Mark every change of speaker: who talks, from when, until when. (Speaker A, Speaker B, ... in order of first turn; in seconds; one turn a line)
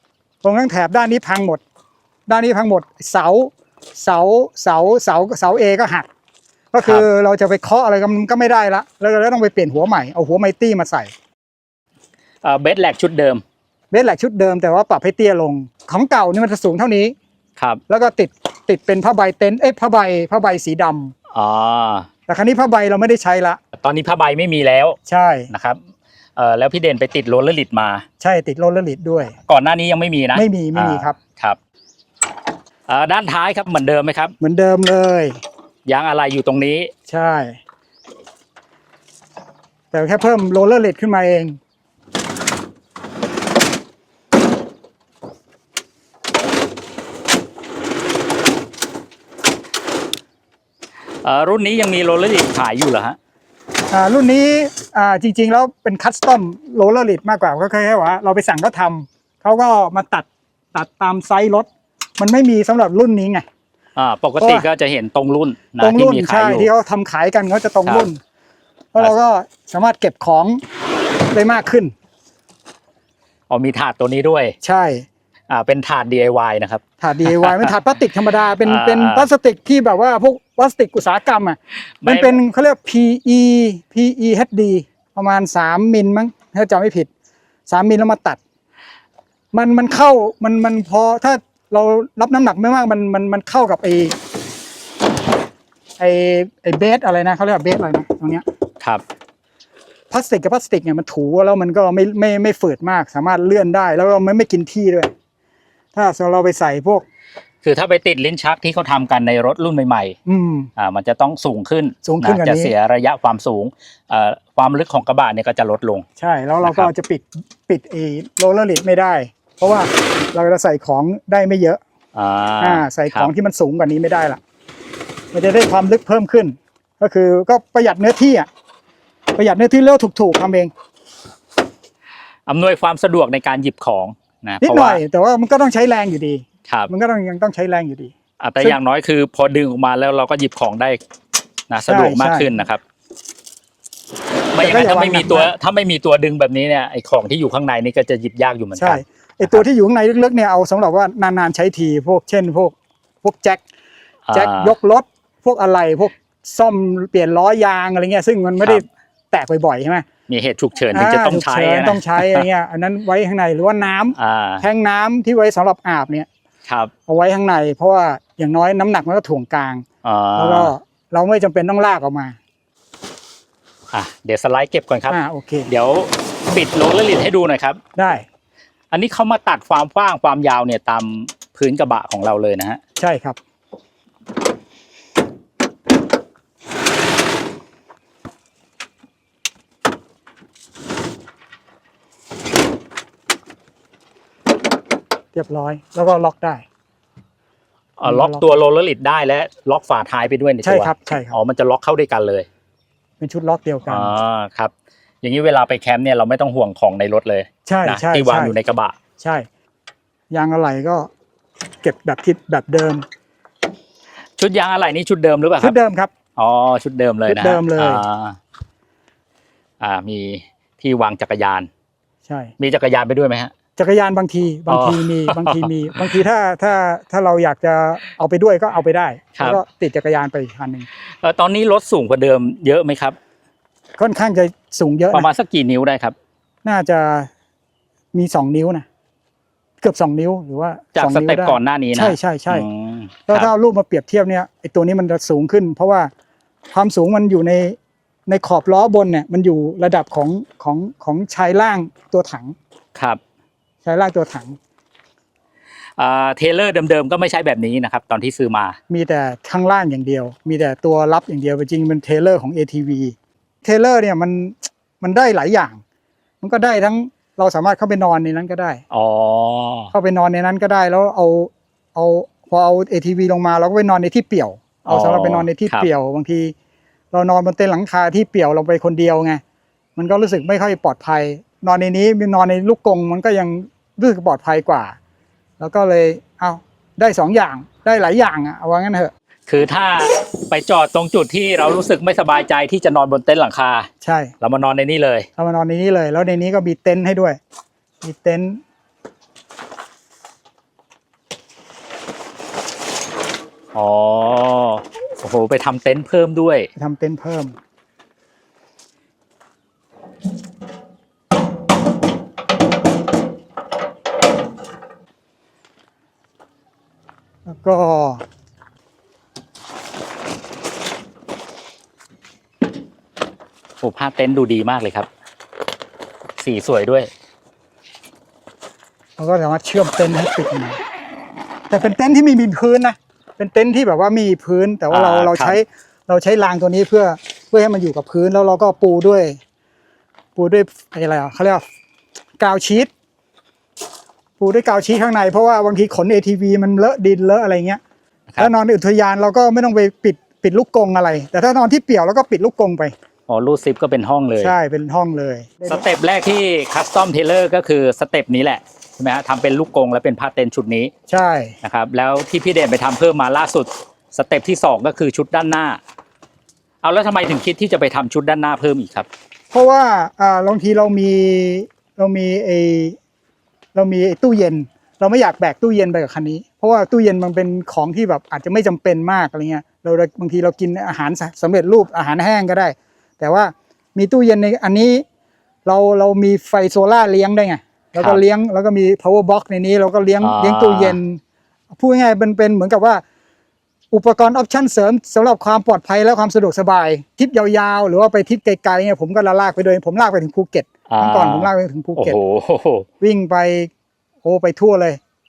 Speaker A: 0.4-1.6
Speaker A: 2.3-6.1
Speaker A: 6.7-11.1
Speaker B: 12.4-13.4
Speaker A: 13.9-17.2
Speaker A: 17.9-21.1
Speaker B: 21.3-22.1
Speaker A: 22.3-23.6
Speaker B: 23.7-25.0
Speaker A: 25.1-25.5
Speaker B: 25.5-25.8
Speaker B: 26.4-28.1
Speaker A: 28.2-29.4
Speaker B: 29.5-31.6
Speaker A: 30.4-31.2
Speaker B: 32.9-34.4
Speaker A: 34.4-35.4
Speaker B: 35.9-36.9
Speaker A: 37.1-37.6
Speaker A: 39.9-41.6
Speaker B: 51.2-53.2
Speaker A: 53.9-63.5
Speaker B: 64.0-66.7
Speaker A: 64.4-64.7
Speaker A: 65.8-68.2
Speaker A: 68.9-70.6
Speaker A: 71.3-71.9
Speaker B: 73.5-74.6
Speaker A: 74.6-75.1
Speaker B: 75.5-77.7
Speaker A: 77.0-87.1
Speaker B: 78.6-79.3
Speaker B: 82.0-82.4
Speaker A: 87.7-88.4
Speaker A: 89.5-94.2
Speaker A: 96.0-98.4
Speaker A: 100.1-105.1
Speaker A: 105.9-107.0
Speaker B: 107.6-110.2
Speaker A: 110.3-110.7
Speaker B: 110.8-116.1
Speaker A: 112.0-112.7
Speaker A: 116.2-121.8
Speaker B: 116.6-116.9
Speaker B: 122.2-123.3
Speaker A: 122.6-124.4
Speaker A: 125.3-128.5
Speaker A: 129.3-130.7
Speaker B: 132.5-135.0
Speaker A: 134.6-138.8
Speaker B: 138.4-141.0
Speaker B: 141.7-142.8
Speaker A: 141.9-142.5
Speaker B: 144.5-149.6
Speaker A: 144.6-145.5
Speaker A: 148.8-153.6
Speaker B: 154.3-154.7
Speaker A: 154.3-160.1
Speaker B: 160.3-162.4
Speaker A: 160.9-166.3
Speaker B: 164.2-164.7
Speaker B: 166.7-166.9
Speaker A: 167.1-169.8
Speaker B: 170.0-170.7
Speaker A: 170.4-172.4
Speaker B: 173.9-177.8
Speaker A: 175.1-175.7
Speaker A: 178.0-178.3
Speaker B: 178.9-182.8
Speaker A: 183.0-183.4
Speaker A: 195.3-196.7
Speaker B: 198.0-202.5
Speaker A: 198.1-198.5
Speaker A: 200.6-201.4
Speaker A: 203.2-204.1
Speaker B: 203.9-209.0
Speaker A: 207.7-208.6
Speaker A: 209.2-209.5
Speaker A: 210.3-211.1
Speaker A: 211.8-213.1
Speaker B: 214.4-215.8
Speaker A: 215.6-216.1
Speaker B: 216.4-218.4
Speaker A: 217.3-218.0
Speaker B: 219.8-221.7
Speaker A: 222.3-222.5
Speaker B: 222.6-223.5
Speaker A: 223.8-230.9
Speaker B: 224.7-226.2
Speaker B: 229.3-229.6
Speaker B: 231.2-233.2
Speaker A: 234.0-235.3
Speaker B: 235.1-236.2
Speaker A: 236.6-237.3
Speaker A: 238.1-238.9
Speaker A: 239.8-242.7
Speaker B: 240.9-243.5
Speaker A: 243.3-246.1
Speaker A: 246.7-252.6
Speaker B: 252.9-253.2
Speaker A: 253.8-254.6
Speaker B: 256.0-258.8
Speaker A: 258.9-265.8
Speaker A: 266.4-268.8
Speaker B: 268.9-269.9
Speaker A: 269.9-276.5
Speaker B: 274.9-275.9
Speaker A: 277.1-279.4
Speaker A: 280.0-285.0
Speaker A: 285.6-289.1
Speaker B: 289.5-293.9
Speaker A: 294.0-294.3
Speaker B: 294.4-295.3
Speaker A: 295.4-297.4
Speaker A: 298.0-298.6
Speaker B: 303.7-306.7
Speaker A: 306.8-307.6
Speaker A: 317.5-318.2
Speaker B: 323.8-325.1
Speaker B: 326.4-327.1
Speaker A: 329.2-330.8
Speaker A: 331.7-339.4
Speaker B: 334.9-335.6
Speaker A: 340.4-341.6
Speaker A: 342.4-342.9
Speaker A: 344.4-347.8
Speaker A: 348.4-352.9
Speaker B: 353.3-354.6
Speaker A: 354.4-355.8
Speaker B: 355.7-360.9
Speaker A: 361.1-361.6
Speaker B: 361.6-365.8
Speaker B: 366.8-369.1
Speaker A: 369.5-373.0
Speaker A: 373.7-385.1
Speaker A: 385.6-391.2
Speaker B: 390.2-391.0
Speaker A: 391.7-393.0
Speaker A: 393.9-402.2
Speaker B: 400.9-402.9
Speaker A: 403.0-403.7
Speaker A: 404.2-405.0